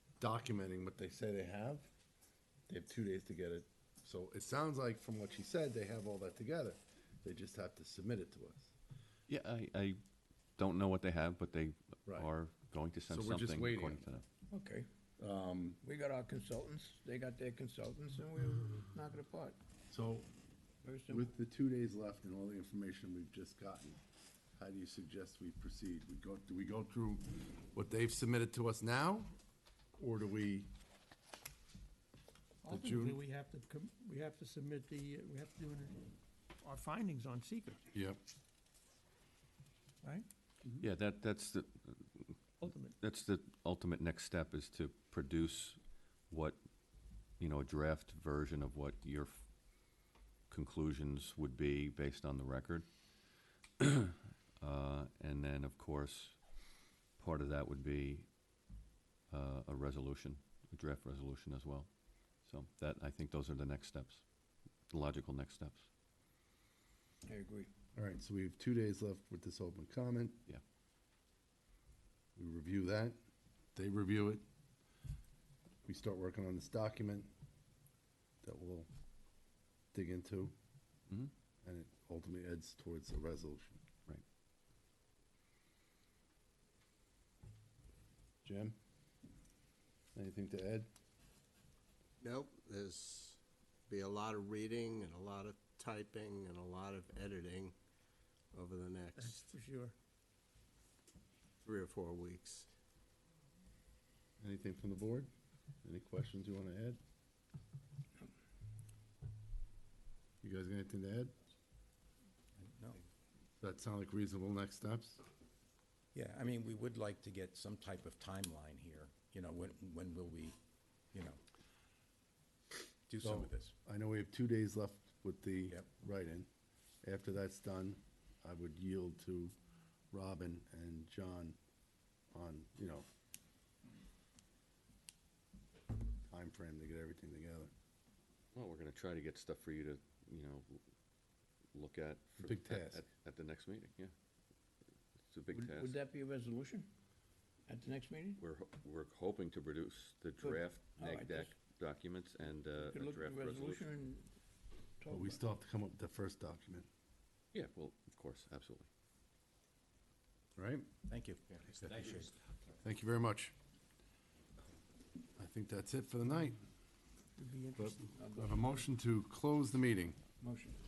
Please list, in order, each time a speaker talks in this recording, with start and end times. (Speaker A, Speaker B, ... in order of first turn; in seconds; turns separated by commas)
Speaker A: 0.2-1.9, Speaker A: 2.7-8.7, Speaker B: 9.3-10.0, Speaker B: 10.6-14.2, Speaker A: 13.1-14.0, Speaker C: 14.5-14.8, Speaker A: 15.2-15.8, Speaker C: 15.8-19.6, Speaker A: 19.9-20.3, Speaker C: 20.8-21.3, Speaker A: 21.1-24.0, Speaker A: 24.6-29.3, Speaker A: 29.9-30.7, Speaker D: 32.6-36.1, Speaker A: 32.7-33.2, Speaker D: 36.6-37.8, Speaker A: 37.9-38.2, Speaker B: 40.8-42.4, Speaker D: 42.6-43.0, Speaker B: 43.0-45.8, Speaker B: 46.3-46.6, Speaker B: 47.4-49.4, Speaker B: 50.5-52.9, Speaker B: 53.8-56.4, Speaker B: 57.2-58.3, Speaker B: 59.3-61.9, Speaker B: 62.4-64.2, Speaker B: 64.9-65.9, Speaker C: 67.2-67.7, Speaker A: 67.9-70.4, Speaker A: 72.3-73.2, Speaker A: 73.8-74.4, Speaker A: 75.8-77.3, Speaker A: 78.4-78.9, Speaker A: 79.9-80.5, Speaker A: 81.6-83.8, Speaker A: 88.4-88.8, Speaker A: 90.1-90.9, Speaker E: 92.2-97.8, Speaker E: 98.5-99.5, Speaker D: 99.2-99.9, Speaker E: 101.6-102.7, Speaker A: 104.4-105.3, Speaker A: 105.8-107.0, Speaker A: 110.4-111.3, Speaker F: 112.6-113.0, Speaker A: 113.6-115.2, Speaker F: 116.1-120.6, Speaker F: 121.1-121.4, Speaker F: 123.1-123.7, Speaker A: 123.2-126.5, Speaker A: 127.0-129.5, Speaker A: 130.1-131.6, Speaker A: 132.3-133.1, Speaker A: 136.3-137.7, Speaker B: 138.5-140.8, Speaker B: 141.7-144.1, Speaker A: 142.4-143.0, Speaker B: 145.2-146.0, Speaker C: 145.5-146.9, Speaker C: 147.7-148.4, Speaker B: 148.4-153.9, Speaker C: 150.4-151.5, Speaker C: 152.8-154.3, Speaker C: 155.0-155.4, Speaker A: 155.1-156.9, Speaker B: 157.5-158.9, Speaker A: 160.6-160.9, Speaker F: 161.1-162.3, Speaker A: 162.8-163.5, Speaker A: 165.4-166.6, Speaker D: 167.4-168.4, Speaker A: 167.8-170.2, Speaker F: 168.2-168.6, Speaker F: 170.4-170.8